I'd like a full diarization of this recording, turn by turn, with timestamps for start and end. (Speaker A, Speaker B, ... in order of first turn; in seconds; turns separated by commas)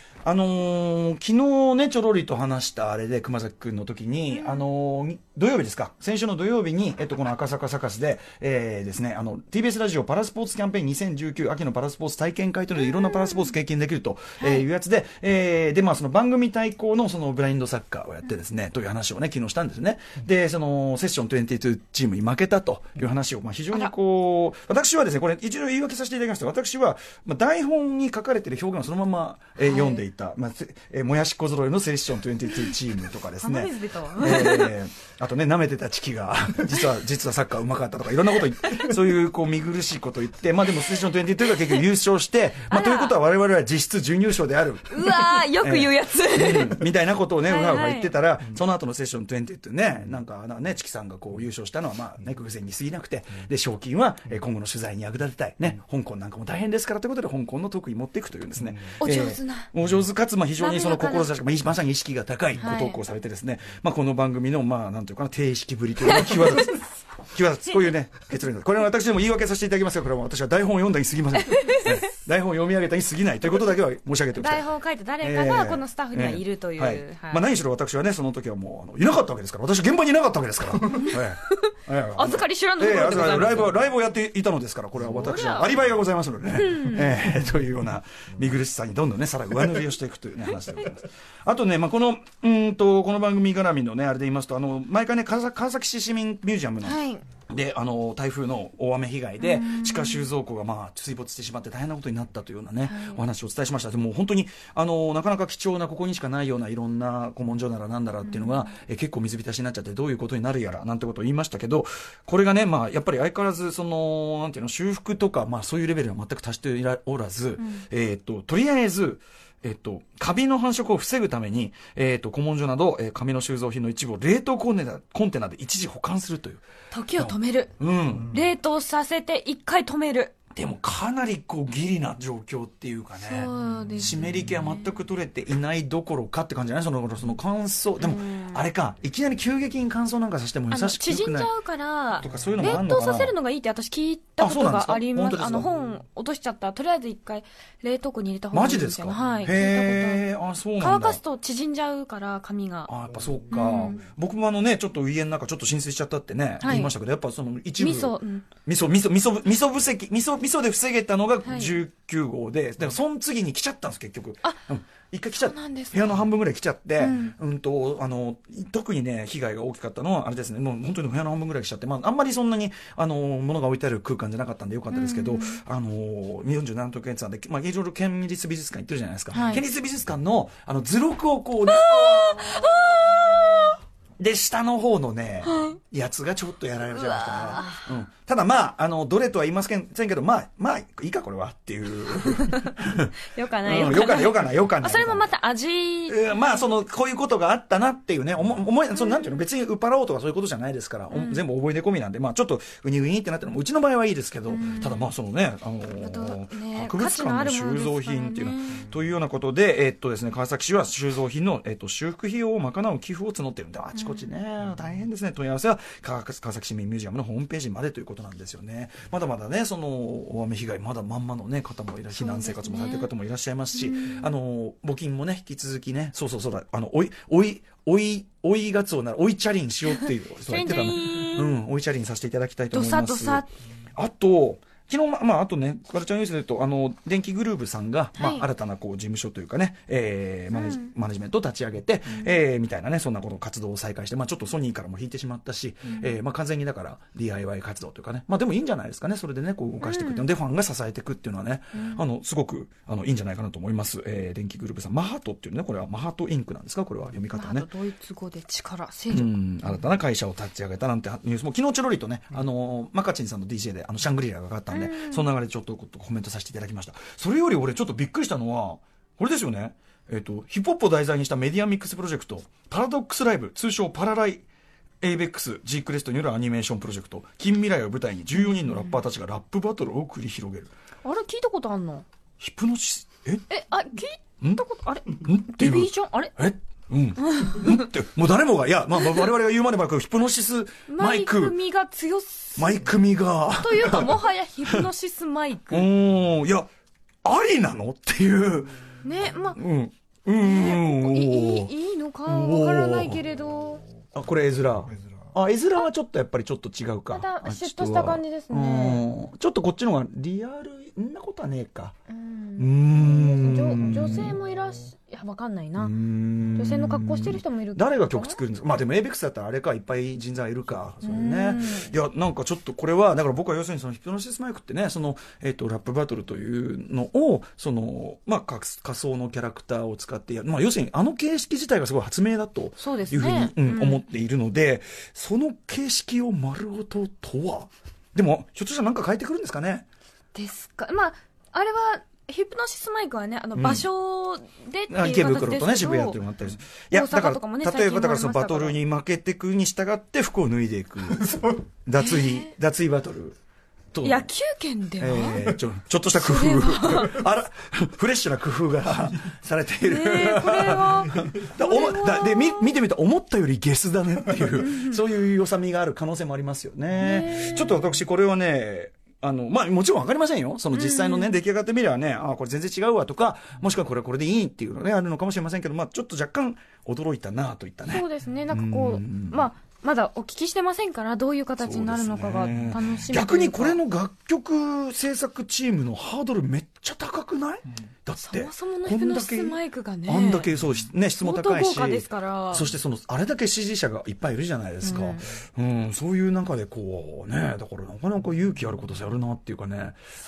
Speaker A: 0.2-74.7, Speaker B: 4.3-4.6, Speaker B: 14.4-14.6, Speaker B: 29.6-30.0, Speaker B: 33.4-34.8, Speaker B: 38.6-38.9, Speaker B: 41.4-41.8, Speaker B: 42.6-43.2, Speaker B: 44.9-46.9, Speaker B: 47.4-48.1, Speaker B: 59.0-59.7, Speaker B: 60.6-61.3, Speaker B: 62.6-63.0, Speaker B: 66.0-66.8, Speaker B: 71.3-72.1, Speaker B: 74.3-77.5, Speaker A: 75.2-126.6, Speaker B: 81.0-83.8, Speaker B: 85.1-85.7, Speaker B: 86.5-87.1, Speaker B: 96.8-97.2, Speaker B: 99.4-100.3, Speaker B: 102.8-103.2, Speaker B: 108.2-108.5, Speaker B: 117.6-117.8, Speaker B: 126.9-127.7, Speaker A: 127.2-128.4, Speaker B: 128.3-130.3, Speaker A: 130.5-141.5, Speaker B: 133.2-134.2, Speaker B: 138.0-138.7, Speaker B: 140.7-150.2, Speaker A: 142.2-143.3, Speaker A: 144.4-145.7, Speaker A: 148.5-151.2, Speaker B: 150.8-152.9, Speaker A: 152.9-182.7, Speaker B: 153.5-154.0, Speaker B: 156.6-156.9, Speaker B: 157.8-158.5, Speaker B: 161.4-161.7, Speaker B: 165.4-166.1, Speaker B: 167.0-167.3, Speaker B: 174.9-175.6, Speaker B: 179.3-179.6, Speaker B: 181.7-183.8, Speaker A: 184.2-195.3, Speaker B: 185.4-185.8, Speaker B: 186.9-187.9, Speaker B: 192.4-196.6, Speaker A: 196.1-233.4, Speaker B: 198.9-199.4, Speaker B: 201.1-201.4, Speaker B: 204.5-205.0, Speaker B: 206.0-208.8, Speaker B: 214.0-214.3, Speaker B: 222.1-223.1, Speaker B: 223.8-224.3, Speaker B: 230.4-231.6, Speaker B: 232.7-233.5, Speaker A: 233.9-257.7, Speaker B: 238.2-238.4, Speaker B: 240.5-240.9, Speaker B: 249.8-250.2, Speaker B: 251.7-252.0, Speaker B: 257.3-259.4, Speaker A: 259.1-274.4, Speaker B: 264.7-265.3, Speaker A: 275.0-280.7, Speaker B: 278.5-278.9, Speaker B: 281.0-282.0, Speaker A: 282.4-283.4, Speaker B: 283.5-286.3, Speaker A: 284.4-291.5, Speaker B: 287.2-287.9, Speaker B: 290.9-292.9, Speaker A: 292.6-294.8, Speaker B: 293.6-295.9, Speaker A: 295.7-296.7, Speaker A: 297.2-298.8, Speaker B: 299.0-299.6, Speaker A: 299.5-301.7, Speaker B: 300.4-303.8, Speaker A: 302.2-303.2, Speaker A: 304.1-311.9, Speaker B: 307.1-309.0, Speaker B: 312.1-315.9, Speaker A: 312.6-314.4, Speaker A: 315.8-339.9, Speaker B: 316.6-318.4, Speaker B: 321.0-321.9, Speaker B: 332.8-334.0, Speaker B: 340.3-346.2, Speaker A: 343.6-343.9, Speaker A: 344.9-353.4, Speaker B: 346.9-348.8, Speaker B: 352.0-352.5, Speaker A: 353.9-354.3, Speaker B: 354.0-355.5, Speaker A: 355.0-379.5, Speaker B: 356.1-357.2, Speaker B: 359.8-362.8, Speaker B: 364.4-365.0, Speaker B: 367.0-367.8, Speaker B: 370.7-371.4, Speaker B: 377.9-383.8, Speaker A: 381.6-400.0, Speaker B: 388.2-390.5, Speaker B: 391.2-392.7, Speaker B: 394.8-395.3